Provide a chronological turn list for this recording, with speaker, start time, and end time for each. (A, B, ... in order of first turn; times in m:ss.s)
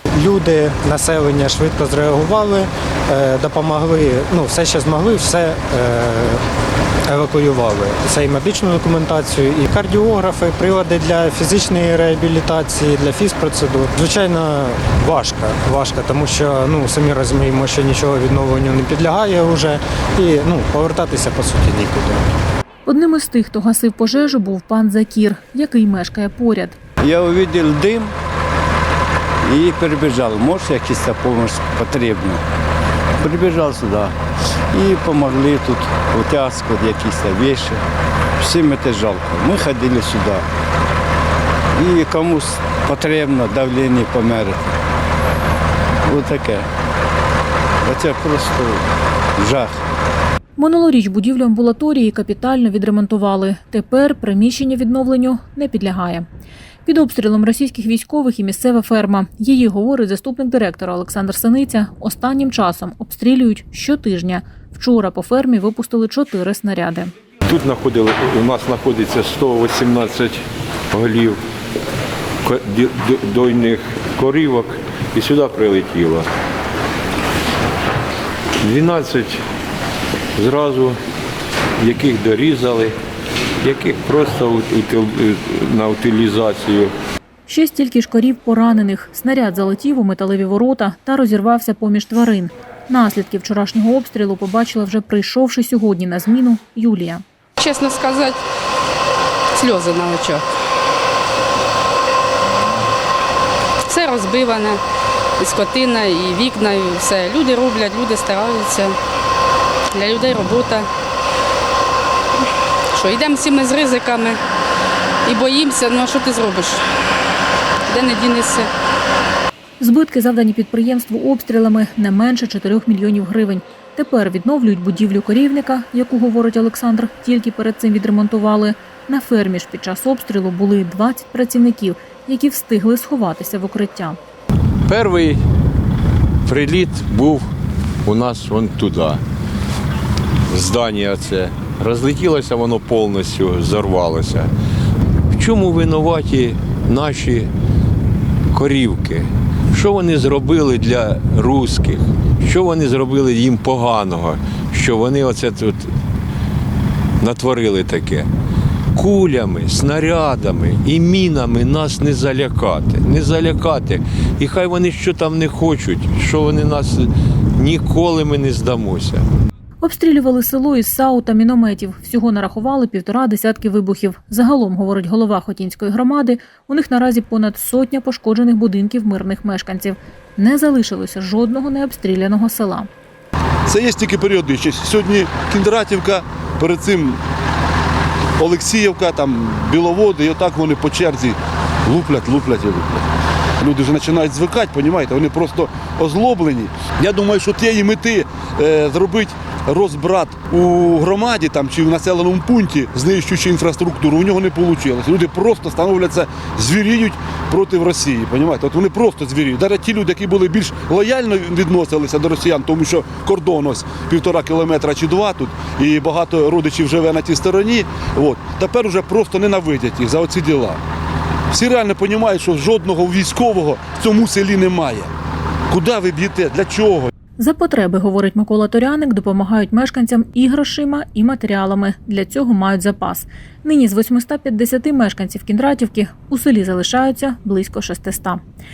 0:00.2-0:06.4 A
0:07.1-0:22.2 A
0:22.9-0:26.8 B
0:27.0-0:28.1 C
0:29.5-0:32.4 C
0:33.2-0:34.1 C
0:34.7-0:37.8 C
0:38.4-0:40.4 C
0:41.8-0:44.7 C
0:46.1-0:46.7 C
0:47.9-0:48.8 C
0:49.4-0:49.8 C
0:50.6-0:56.3 B
0:56.8-1:07.1 B
1:07.4-1:11.4 D
1:12.4-1:16.3 D
1:18.6-1:19.4 D
1:20.4-1:21.0 D
1:21.8-1:22.9 D
1:23.6-1:26.9 D
1:27.5-1:37.2 B
1:37.6-1:38.4 E
1:39.6-1:40.4 E
1:43.9-1:44.8 E
1:45.4-1:49.0 E
1:49.9-1:50.9 E
1:52.9-1:54.4 E
1:55.3-1:56.8 E
1:57.9-1:58.7 E
1:59.8-2:14.2 B
2:14.9-2:15.4 D
2:16.4-2:17.5 D
2:18.0-2:19.2 D
2:20.5-2:24.5 D
2:25.3-2:27.5 D
2:28.5-2:35.9 D
2:37.2-2:38.3 D
2:38.9-2:49.2 D
2:49.8-3:02.9 B
3:03.7-3:07.2 F
3:08.4-3:13.1 F
3:13.6-3:40.8 F
3:41.5-3:45.1 F
3:45.7-3:47.1 F
3:47.4-3:58.4 B